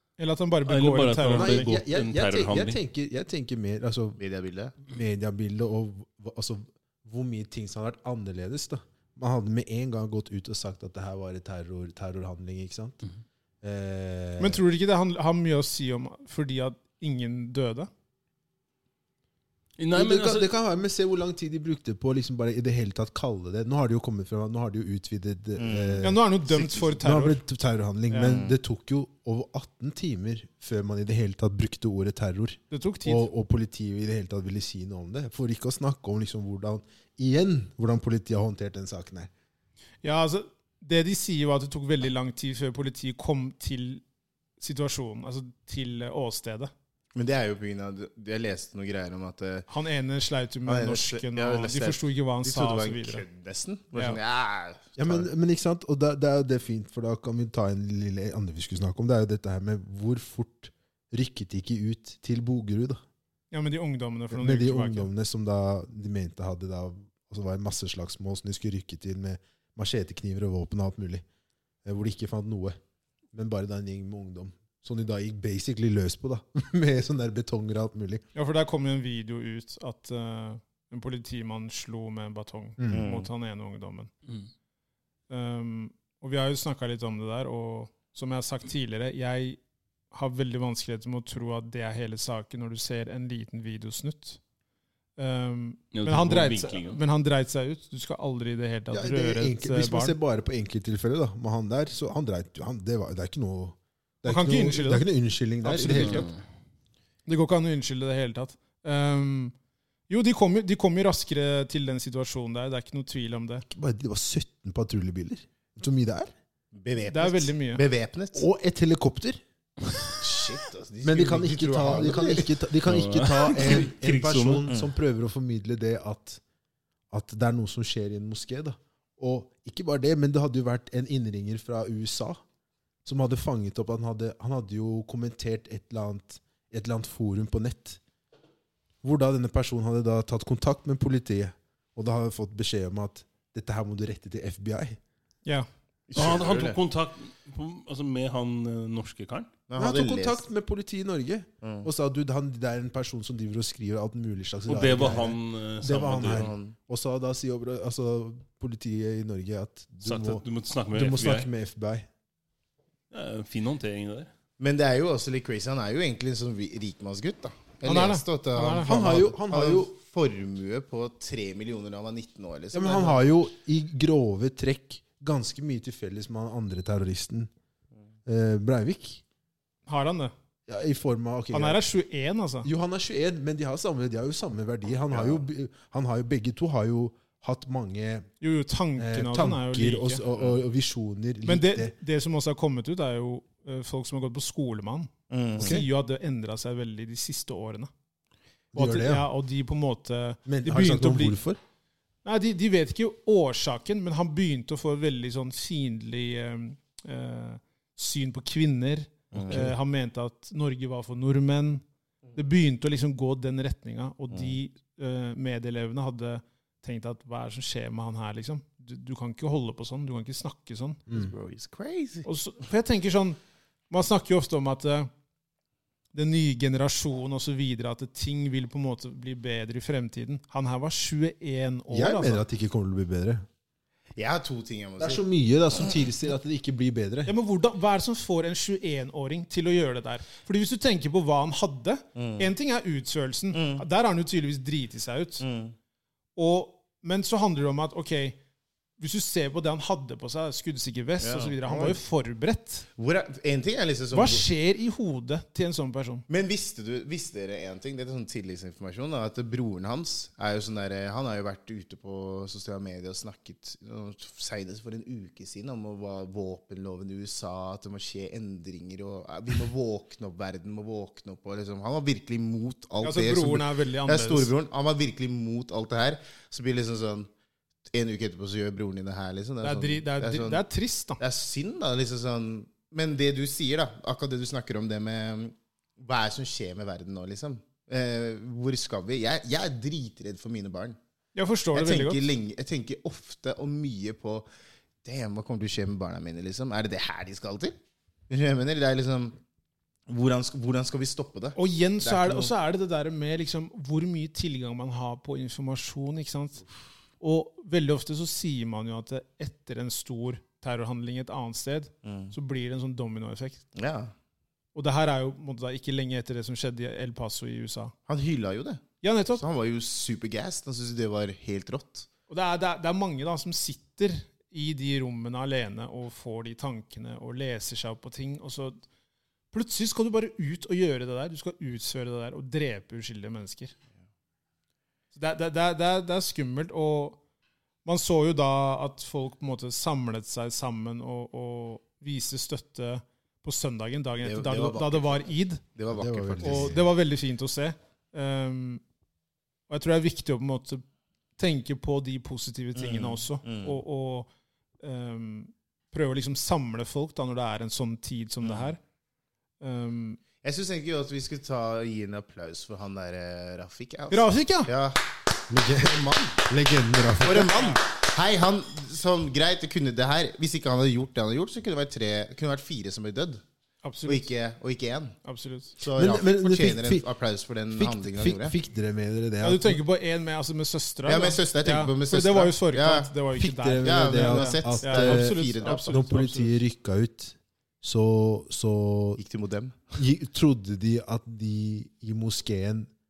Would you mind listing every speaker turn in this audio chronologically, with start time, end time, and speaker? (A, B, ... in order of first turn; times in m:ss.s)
0:00.2-0:01.7 A
0:00.6-0:02.8 B
0:01.4-0:04.2 C
0:04.2-0:04.7 D
0:04.8-0:13.0 C
0:13.6-0:14.6 C
0:14.4-0:17.9 A
0:19.8-0:20.5 B
0:20.0-0:39.3 C
0:25.6-0:26.1 D
0:26.0-0:27.4 A
0:28.1-0:28.4 A
0:28.2-0:28.6 D
0:32.7-0:33.3 A
0:40.0-0:44.0 A
0:44.6-0:46.7 A
0:47.2-0:49.7 D
0:49.7-0:53.2 A
0:50.7-0:55.3 D
0:53.9-0:54.2 A
0:55.0-1:03.0 C
1:03.5-1:05.1 A
1:04.3-1:11.2 C
1:11.8-1:12.8 C
1:13.3-1:18.2 C
1:18.4-1:24.1 A
1:22.8-1:23.1 C
1:22.9-1:23.3 D
1:25.3-1:29.6 A
1:30.1-1:34.4 A
1:35.2-1:40.2 A
1:35.9-1:37.0 B
1:38.9-1:46.3 C
1:44.2-1:45.1 A
1:45.6-1:46.3 A
1:45.8-1:46.4 B
1:47.3-1:49.5 A
1:50.1-1:53.6 A
1:53.7-1:56.3 C
1:56.7-1:58.4 D
1:57.1-1:57.8 A
1:58.3-1:59.4 C
2:00.2-2:02.5 D
2:01.0-2:06.4 C
2:02.8-2:04.7 B
2:04.7-2:04.9 D
2:07.1-2:12.4 C
2:13.0-2:18.0 C
2:19.0-2:25.0 C
2:26.1-2:26.8 D
2:26.2-2:29.5 B
2:29.7-2:30.4 D
2:29.8-2:42.1 C
2:31.6-2:31.9 D
2:34.7-2:36.5 B
2:36.2-2:36.8 D
2:40.0-2:41.5 B
2:43.1-2:44.3 B
2:44.6-2:53.2 D
2:47.8-2:49.1 A
2:48.8-2:49.9 C
2:52.7-2:57.5 C
2:58.3-2:59.2 C
2:59.9-3:00.3 A
3:00.7-3:01.8 C
3:01.5-3:02.7 A
3:02.6-3:08.3 C
3:05.1-3:05.4 D
3:08.4-3:10.2 A
3:09.0-3:11.9 C
3:11.5-3:17.9 A
3:15.3-3:15.8 D
3:15.6-3:15.8 C
3:18.7-3:19.3 C
3:18.8-3:21.4 A
3:20.5-3:21.6 C
3:22.2-3:31.8 A
3:29.3-3:29.7 D
3:29.4-3:29.8 C
3:32.4-3:41.0 A
3:41.1-3:42.3 D
3:42.2-3:43.4 A
3:43.9-3:45.1 A
3:46.1-3:52.4 A
3:51.9-3:53.4 C
3:54.2-3:56.0 D
3:55.0-3:57.3 C
3:57.3-4:05.4 A
4:02.2-4:02.5 D
4:03.5-4:03.8 D
4:05.4-4:05.8 D
4:06.4-4:08.4 A
4:09.0-4:12.9 A
4:11.2-4:12.0 D
4:13.0-4:14.5 D
4:14.1-4:16.2 A
4:16.3-4:37.3 D
4:33.0-4:34.5 A
4:37.9-4:40.6 D
4:39.6-4:41.2 A
4:41.2-4:51.0 D
4:51.4-4:52.2 A
4:51.7-4:54.5 D
4:55.0-4:57.8 D
4:58.3-4:59.4 D
5:00.1-5:02.5 D
5:01.6-5:06.6 A
5:07.2-5:13.6 A
5:12.0-5:12.3 D
5:13.8-5:14.1 D
5:14.8-5:17.9 A
5:18.1-5:22.1 D
5:19.0-5:19.4 A
5:22.3-5:28.8 A
5:29.5-5:33.7 A
5:35.1-5:37.2 A
5:37.8-5:45.6 A
5:44.2-5:45.2 D
5:45.8-5:46.8 D
5:45.9-5:46.9 C
5:46.4-5:48.8 A
5:49.7-5:50.8 A
5:51.4-5:54.3 A
5:52.8-5:53.8 D
5:54.8-5:58.8 A
5:58.4-5:58.8 D
5:59.6-6:00.2 A
6:00.4-6:05.0 D
6:04.1-6:04.7 A
6:05.5-6:07.8 C
6:05.8-6:06.3 D
6:07.2-6:13.4 D
6:13.8-6:14.3 A
6:14.1-6:15.2 D
6:15.2-6:15.8 A
6:15.8-6:18.6 D
6:16.0-6:17.0 C
6:17.7-6:19.8 C
6:19.4-6:26.6 A
6:21.1-6:23.1 D
6:23.3-6:29.2 C
6:23.8-6:26.1 D
6:29.2-6:30.0 D
6:30.0-6:32.9 C